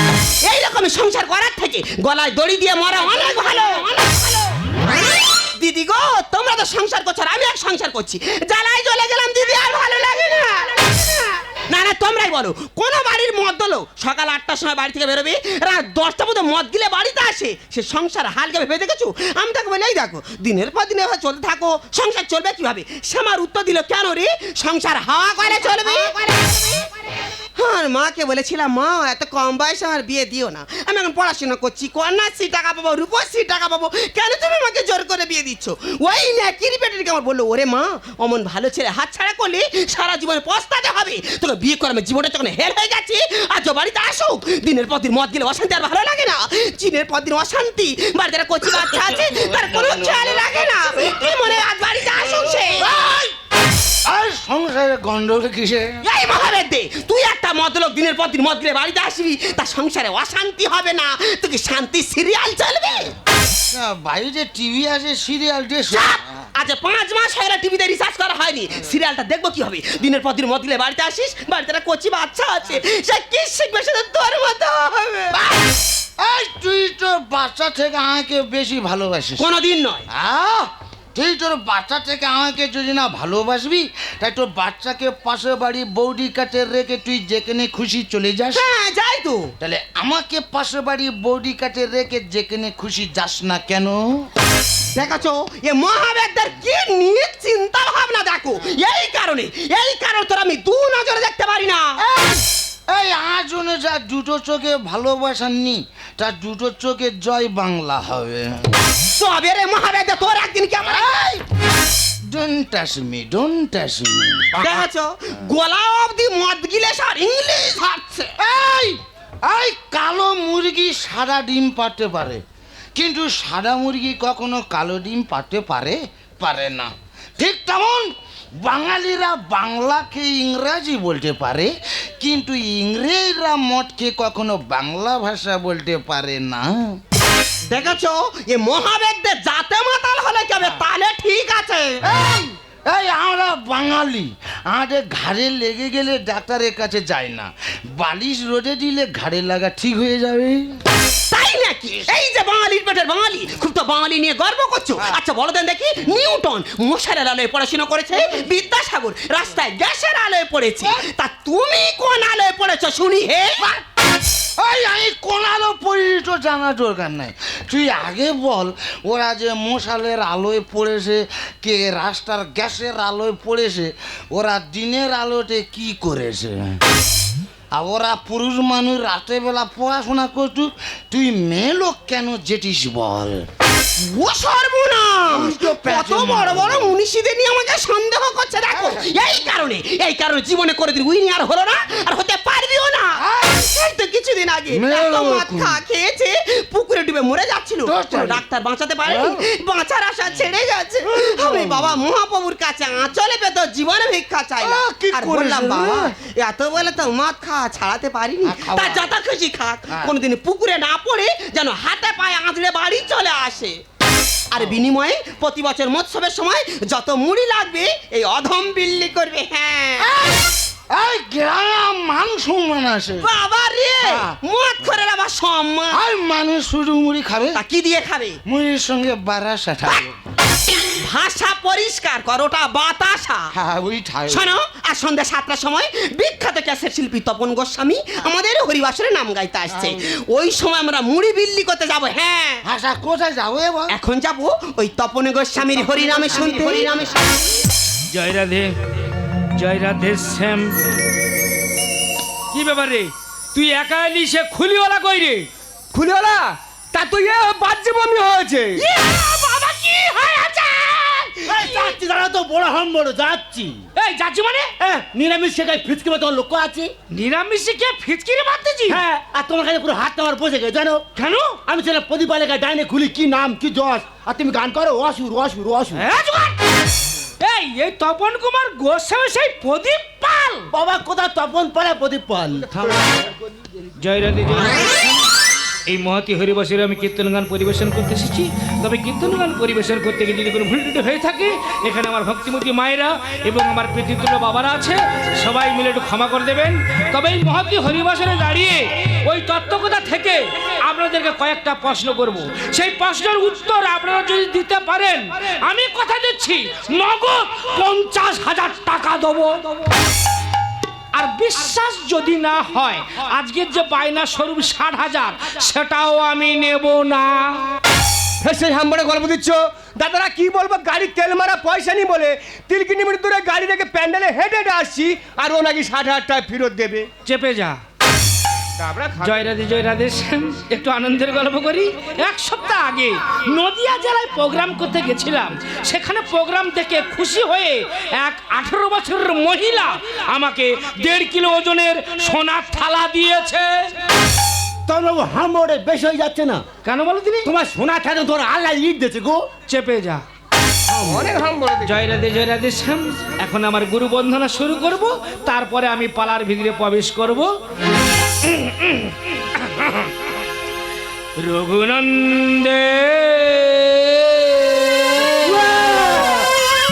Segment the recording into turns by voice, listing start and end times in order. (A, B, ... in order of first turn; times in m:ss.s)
0:00.4-0:04.8 A
0:05.6-0:11.1 A
0:11.7-0:26.9 A
0:27.6-0:52.9 A
0:49.3-0:50.4 B
0:52.8-0:53.4 B
0:54.0-0:56.0 B
0:56.0-1:03.1 A
1:03.7-1:06.2 B
1:05.9-1:15.5 A
1:16.2-1:19.5 B
1:19.4-1:20.0 A
1:20.1-1:28.6 B
1:28.5-1:29.5 A
1:29.6-1:34.3 B
1:35.0-1:41.9 A
1:42.0-1:48.7 B
1:49.0-1:51.1 A
1:50.9-1:51.4 B
1:52.3-1:54.6 B
1:54.6-1:58.3 A
1:58.4-2:02.4 B
2:03.0-2:17.0 B
2:17.7-2:22.0 A
2:22.1-2:30.7 B
2:31.3-2:43.7 A
2:44.6-2:56.8 B
2:57.7-3:03.5 B
3:04.0-3:33.8 A
3:05.3-3:06.9 B
3:08.8-3:09.1 B
3:13.2-3:13.7 B
3:14.7-3:15.8 B
3:17.8-3:18.4 B
3:19.1-3:19.4 B
3:21.1-3:21.9 B
3:24.6-3:26.1 B
3:28.4-3:29.1 B
3:29.9-3:30.2 B
3:34.5-3:40.1 A
3:40.0-3:43.3 B
3:43.2-3:46.0 A
3:44.0-3:44.4 B
3:45.9-3:47.6 B
3:47.5-3:48.4 A
3:48.5-3:50.1 B
3:50.8-3:53.5 A
3:53.5-3:54.6 B
3:54.3-4:02.6 A
3:59.7-4:00.0 B
4:02.6-4:03.9 B
4:03.9-4:07.4 A
4:05.8-4:07.2 B
4:08.1-4:08.7 C
4:09.6-4:10.8 C
4:12.5-4:15.5 C
4:15.9-4:18.8 D
4:18.8-4:22.0 C
4:21.4-4:23.8 E
4:24.0-4:24.7 C
4:24.8-4:26.9 E
4:27.1-4:29.0 C
4:28.9-4:31.0 E
4:31.2-4:31.6 C
4:31.7-4:36.1 E
4:36.0-4:36.6 C
4:37.4-4:40.7 C
4:40.7-4:43.1 E
4:44.0-4:45.1 C
4:45.9-5:09.9 C
5:11.1-5:17.6 C
5:18.4-5:27.1 D
5:27.3-5:27.8 C
5:28.8-5:29.5 D
5:29.2-5:43.9 C
5:44.9-5:46.6 E
5:46.8-5:47.5 C
5:47.4-5:49.4 E
5:49.7-5:50.2 C
5:50.9-5:52.0 D
5:51.8-5:57.5 C
5:58.4-6:00.1 C
6:01.4-6:06.5 C
6:05.7-6:06.2 E